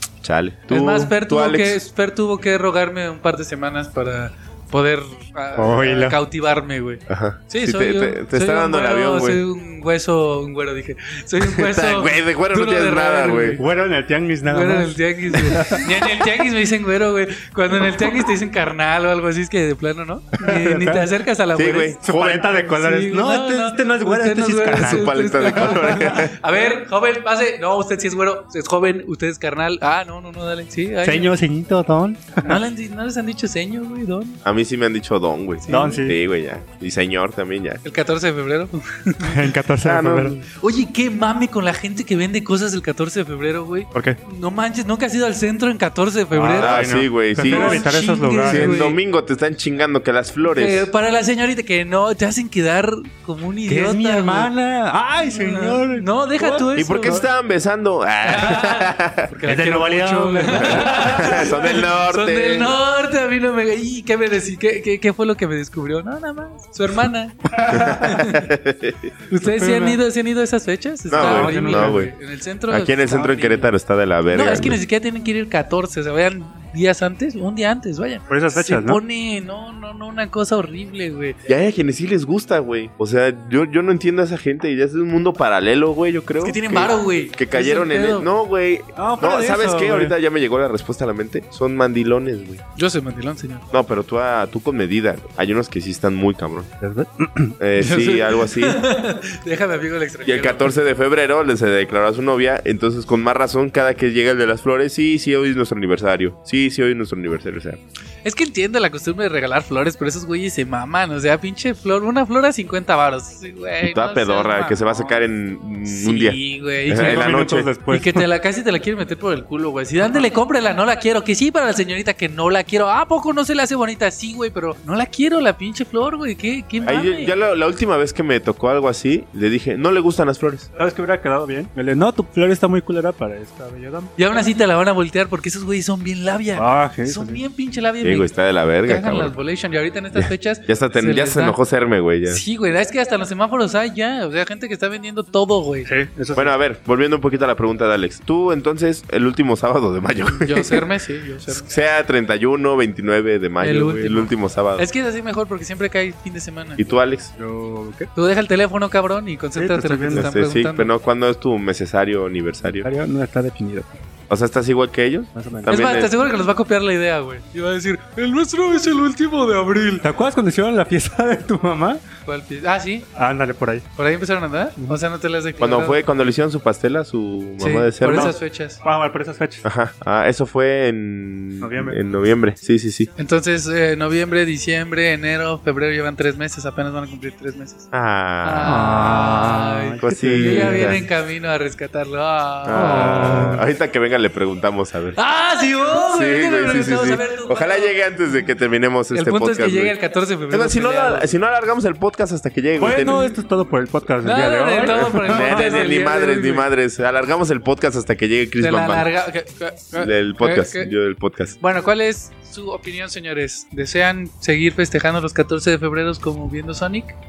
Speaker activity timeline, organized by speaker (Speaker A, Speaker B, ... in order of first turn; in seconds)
Speaker A: 0.2-1.8, 7.1-9.4, 11.4-13.6, 21.5-22.5, 24.8-26.4, 34.4-37.8, 39.8-40.4, 46.5-47.9, 48.4-50.9, 56.7-59.4, 60.5-62.8, 67.7-69.1, 71.1-72.1, 72.7-74.8, 81.5-92.6, 93.7-96.7, 97.6-98.8, 100.2-107.8, 113.8-117.7, 126.8-130.7, 138.0-139.3, 140.1-142.4, 146.3-150.8, 151.5-154.9, 156.8-157.3, 160.1-162.8, 164.3-166.1, 175.6-178.3, 179.6-183.1, 187.9-188.9, 190.0-191.0, 192.6-195.2, 195.9-199.9, 200.5-203.3, 205.1-209.1, 210.0-211.5
Speaker B: 0.7-13.6, 14.5-31.3, 32.4-34.4, 35.7-36.0, 37.8-39.4, 40.6-49.0, 50.4-54.5, 55.3-57.2, 58.2-68.5, 69.3-73.7, 74.3-81.4, 86.4-88.3, 92.8-93.7, 97.8-100.7, 108.2-115.2, 115.9-127.3, 134.2-138.3, 138.8-141.6, 142.3-145.9, 150.3-151.7, 153.6-156.9, 158.1-160.9, 165.7-170.0, 172.2-173.1, 173.9-176.0, 177.6-178.8, 183.2-187.9, 188.4-192.9, 195.2-197.9, 199.1-201.3, 204.2-206.7, 208.6-210.9, 211.6-217.2
Speaker C: 5.6-6.2, 13.6-15.9, 20.4-21.1, 22.0-26.2, 31.0-32.6, 35.7-36.1, 39.2-40.4, 46.3-48.9, 53.7-57.2, 59.4-61.3, 67.5-68.3, 69.4-70.0, 71.1-72.1, 78.3-79.0, 89.0-90.1, 96.8-97.5, 116.9-118.3, 130.8-134.1, 136.6-137.4, 145.8-146.5, 157.3-158.1, 159.6-160.3, 162.8-163.9, 165.3-165.8, 170.0-172.0, 173.1-173.8, 178.0-179.6, 181.6-182.0, 188.6-191.0, 192.7-193.6, 202.8-205.9